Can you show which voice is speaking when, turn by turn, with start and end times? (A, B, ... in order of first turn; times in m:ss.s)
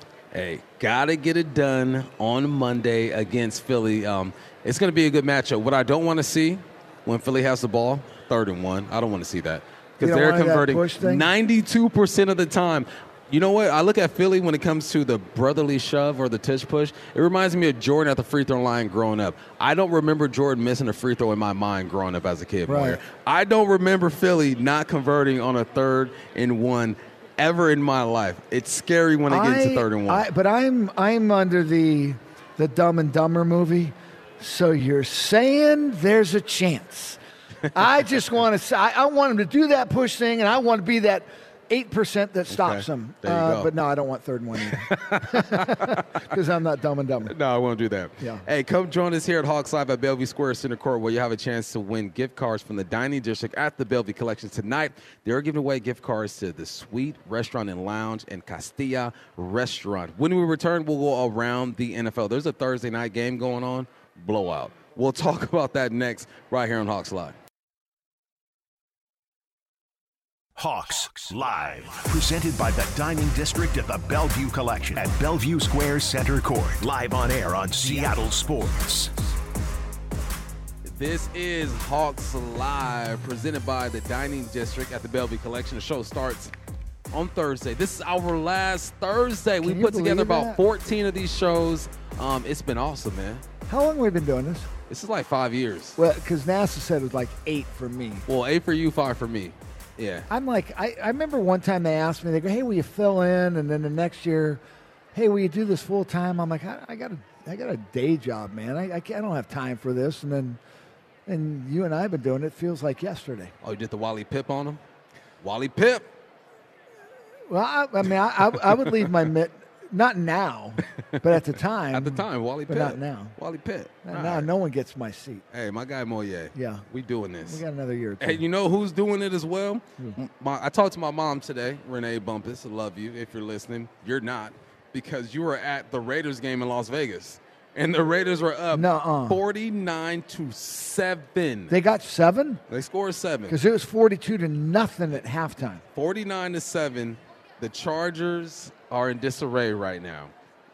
0:00.3-0:30.2 A
0:10.0-0:11.3 B
0:22.7-0:23.0 B
0:29.3-0:37.2 B
0:37.7-0:47.3 B
0:42.5-0:43.7 A
0:44.6-0:46.1 A
0:47.3-1:07.4 A
1:10.6-1:19.2 C
1:20.8-1:26.5 A
1:27.1-1:33.4 A
1:29.6-1:30.6 B
1:33.7-1:34.7 B
1:34.9-1:36.0 A
1:36.0-1:38.2 B
1:38.3-1:40.3 A
1:40.3-1:44.6 B
1:45.1-1:50.6 B
1:51.3-1:53.5 B
1:53.6-1:54.8 A
1:55.4-1:56.1 A
1:57.5-2:03.4 B
2:01.9-2:04.5 A
2:04.0-2:05.4 B
2:05.5-2:07.6 A
2:06.6-2:06.9 B
2:07.5-2:08.4 B
2:08.2-2:21.7 A
2:18.7-2:19.4 B
2:21.7-2:22.6 B
2:22.7-2:23.6 A
2:23.5-2:25.8 B
2:26.0-2:30.3 A